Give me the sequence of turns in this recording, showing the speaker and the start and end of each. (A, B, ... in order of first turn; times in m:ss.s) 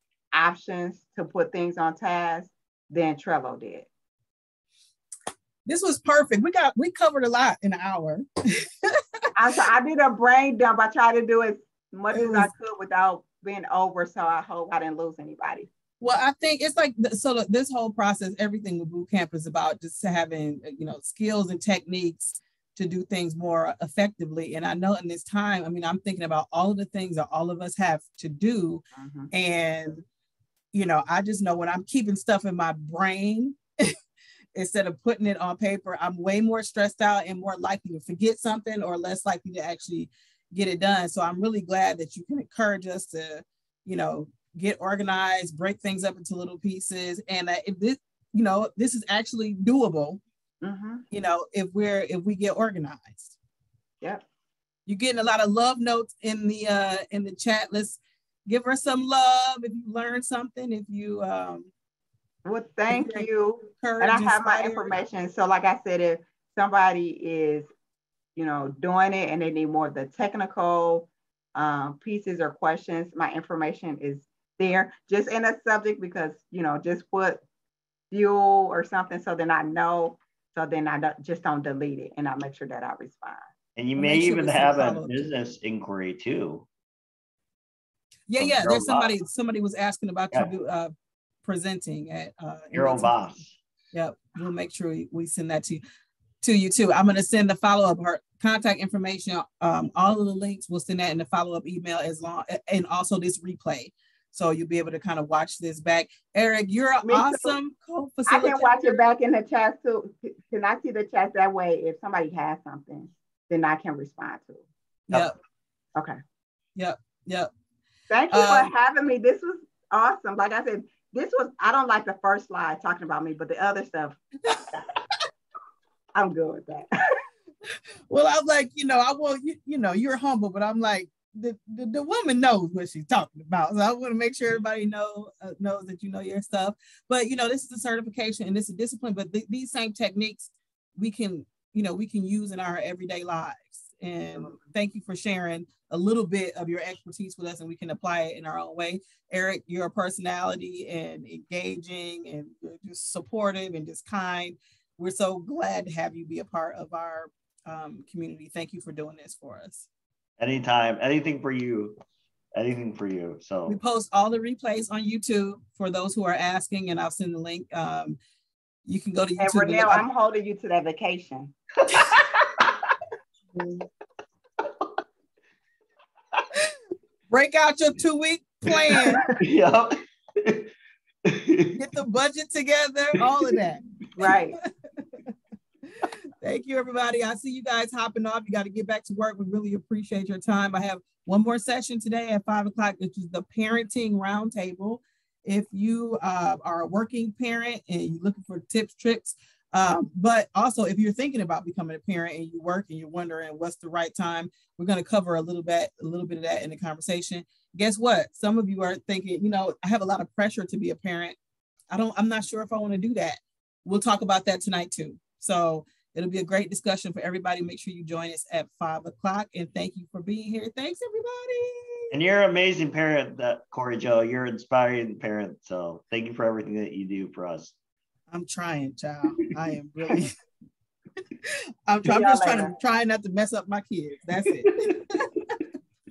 0:00.3-0:03.9 A
0:05.7-0:09.3 B
0:09.4-0:15.7 A
0:12.1-0:12.5 B
0:16.0-0:30.0 B
0:28.9-0:29.3 A
0:30.7-0:33.9 B
0:34.6-0:50.2 B
0:50.6-0:51.0 A
0:51.1-0:53.4 B
0:54.9-1:01.7 B
1:02.4-1:07.7 A
1:02.9-1:03.3 B
1:03.8-1:04.9 B
1:08.4-1:17.4 A
1:18.1-1:23.4 A
1:23.8-1:26.7 C
1:24.0-1:25.3 B
1:28.3-1:30.9 B
1:28.4-1:29.1 C
1:31.4-1:33.1 B
1:32.7-1:33.6 C
1:33.9-1:35.8 B
1:36.4-1:48.9 B
1:47.0-1:47.6 A
1:48.3-1:54.7 A
1:56.8-1:57.5 B
1:58.1-2:04.2 A
1:58.3-1:58.7 B
2:06.1-2:06.9 A
2:08.1-2:39.9 B
2:40.4-2:42.0 C
2:42.5-2:43.8 C
2:43.7-2:48.2 B
2:48.9-2:50.1 B
2:49.4-2:51.5 A
2:57.3-2:59.2 B
2:59.4-3:00.7 C
3:01.2-3:01.8 C
3:01.8-3:04.7 B
3:04.2-3:04.6 A
3:06.0-3:31.4 B
3:31.9-3:42.1 B
3:42.1-3:47.7 C
3:48.3-3:50.3 B
3:51.4-3:55.6 B
3:52.1-3:52.8 A
3:54.6-3:54.9 C